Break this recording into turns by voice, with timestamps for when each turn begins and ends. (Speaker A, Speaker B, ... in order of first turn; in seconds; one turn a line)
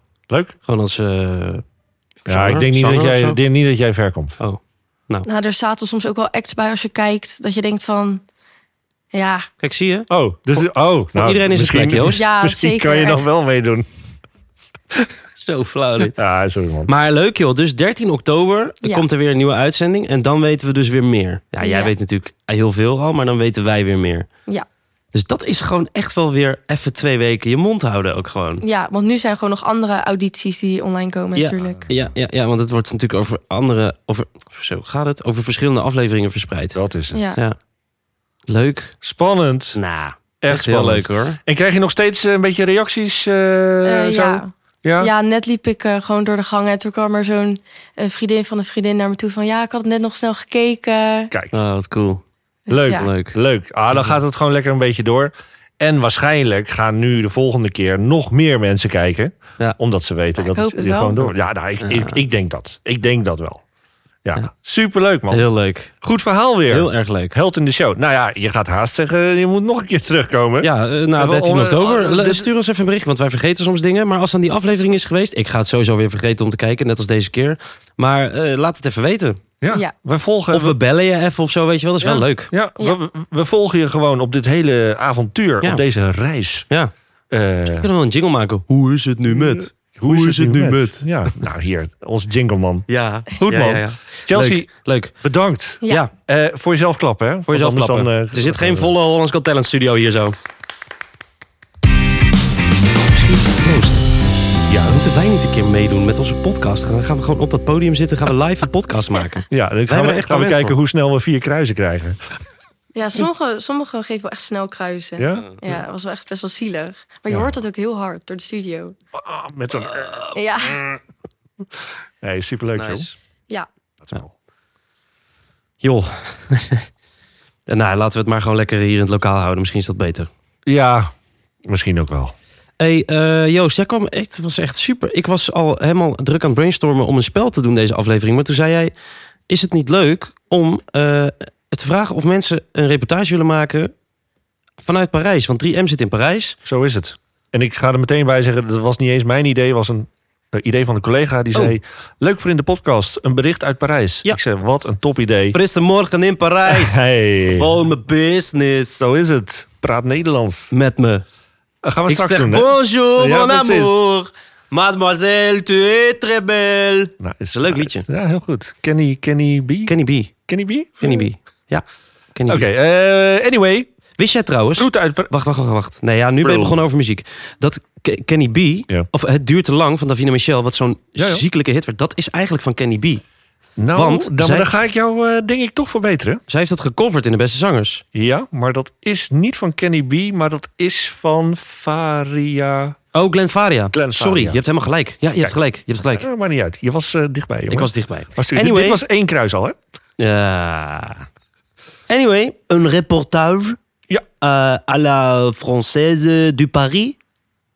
Speaker A: 0.3-0.5
Speaker B: 0.6-1.6
Speaker B: 2.2-3.4
Speaker A: 2.3-4.3
Speaker B: 4.4-5.3
Speaker C: 5.2-8.2
Speaker C: 9.1-9.5
Speaker B: 9.6-10.1
Speaker A: 10.1-13.9
Speaker B: 11.1-12.2
Speaker C: 12.1-13.2
Speaker B: 15.4-16.2
Speaker A: 16.1-16.9
Speaker B: 16.9-24.3
Speaker C: 21.6-21.9
Speaker B: 25.1-28.6
Speaker C: 28.6-31.8
Speaker B: 31.3-36.8
Speaker A: 31.6-31.9
Speaker A: 36.7-37.2
Speaker C: 37.1-37.4
Speaker B: 38.5-39.0
Speaker A: 39.0-39.8
Speaker B: 39.7-41.4
Speaker A: 40.4-45.1
Speaker C: 43.8-51.3
Speaker A: 51.3-51.5
Speaker B: 51.5-52.2
Speaker C: 52.7-53.1
Speaker A: 52.7-63.6
Speaker B: 52.9-53.4
Speaker B: 53.9-54.2
Speaker C: 60.5-61.3
Speaker B: 61.8-62.2
Speaker A: 64.2-72.5
Speaker B: 65.3-65.9
Speaker B: 66.7-67.3
Speaker B: 70.6-79.4
Speaker A: 79.6-80.8
Speaker B: 80.5-82.5
Speaker A: 82.0-86.7
Speaker A: 87.3-87.9
Speaker B: 87.7-91.4
Speaker A: 89.3-98.9
Speaker B: 92.9-95.2
Speaker B: 97.5-100.3
Speaker B: 103.1-104.0
Speaker A: 104.7-105.0
Speaker B: 104.8-110.8
Speaker A: 109.5-112.2
Speaker C: 112.9-119.0
Speaker A: 115.2-115.5
Speaker A: 119.2-120.2
Speaker C: 120.3-120.8
Speaker A: 122.2-123.1
Speaker B: 122.8-123.1
Speaker A: 124.0-124.3
Speaker B: 125.8-126.9
Speaker B: 127.7-130.3
Speaker A: 130.7-131.1
Speaker A: 131.7-132.3
Speaker B: 132.8-138.9
Speaker B: 139.5-143.9
Speaker B: 144.8-146.6
Speaker A: 146.6-155.6
Speaker B: 155.5-159.0
Speaker A: 156.7-157.7
Speaker A: 159.0-160.7
Speaker B: 160.7-161.2
Speaker A: 161.8-164.0
Speaker B: 162.1-168.1
Speaker A: 167.2-169.9
Speaker B: 169.9-170.3
Speaker A: 170.5-171.3
Speaker B: 171.0-171.8
Speaker B: 172.3-172.7
Speaker A: 172.5-173.9
Speaker B: 174.2-183.2
Speaker A: 174.8-175.3
Speaker A: 176.4-176.8
Speaker A: 181.2-181.4
Speaker A: 183.8-186.4
Speaker B: 183.9-184.7
Speaker B: 186.5-188.0
Speaker A: 188.1-192.9
Speaker B: 193.1-196.3
Speaker A: 193.9-194.6
Speaker A: 196.1-199.8
Speaker B: 197.7-199.0
Speaker B: 200.2-201.2
Speaker B: 202.1-203.8
Speaker B: 204.4-207.2